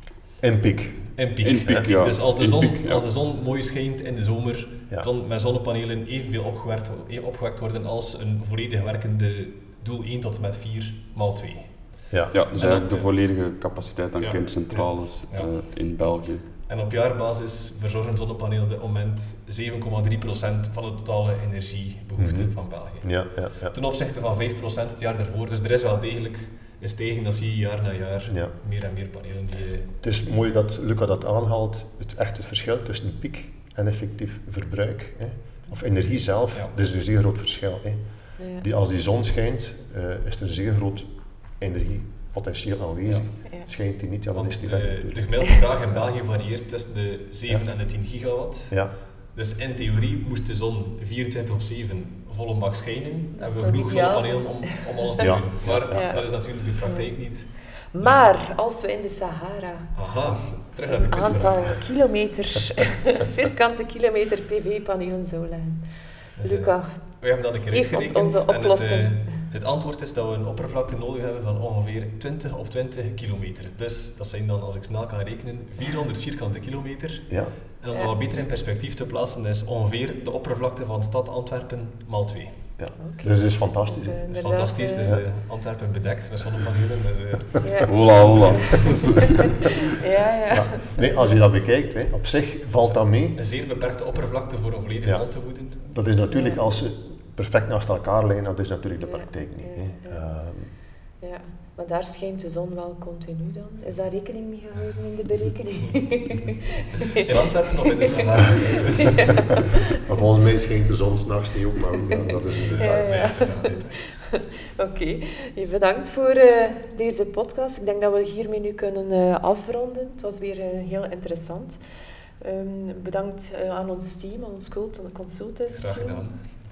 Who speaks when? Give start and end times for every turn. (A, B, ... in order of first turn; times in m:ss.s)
0:00.4-0:01.9 A
0:01.1-0:13.1 B
0:01.4-0:03.0 C
0:12.3-0:16.5 C
0:14.2-0:15.5 B
0:16.6-0:29.9 B
0:22.2-0:23.8 A
0:28.3-0:28.5 A
0:30.0-0:46.1 A
0:38.4-0:38.6 D
0:43.0-0:43.4 B
0:44.3-0:58.3 B
0:48.7-0:49.0 A
0:53.4-0:55.1 D
0:55.2-0:56.2 A
0:55.8-0:57.1 D
0:57.9-1:09.3 D
0:59.9-1:01.8 B
1:06.4-1:22.6 B
1:17.3-1:17.6 A
1:22.8-1:24.3 A
1:23.0-1:25.2 D
1:24.3-1:29.3 B
1:27.6-1:28.6 D
1:27.9-1:29.0 C
1:29.8-1:31.4 D
1:30.5-1:33.4 A
1:32.8-1:35.9 B
1:35.0-1:40.7 A
1:36.3-1:36.6 D
1:39.0-1:40.2 D
1:41.2-1:47.2 D
1:47.1-1:49.3 B
1:48.5-1:49.8 D
1:50.0-1:53.5 A
1:52.5-1:54.0 B
1:52.8-2:01.8 D
2:02.4-2:06.3 D
2:05.7-2:06.5 B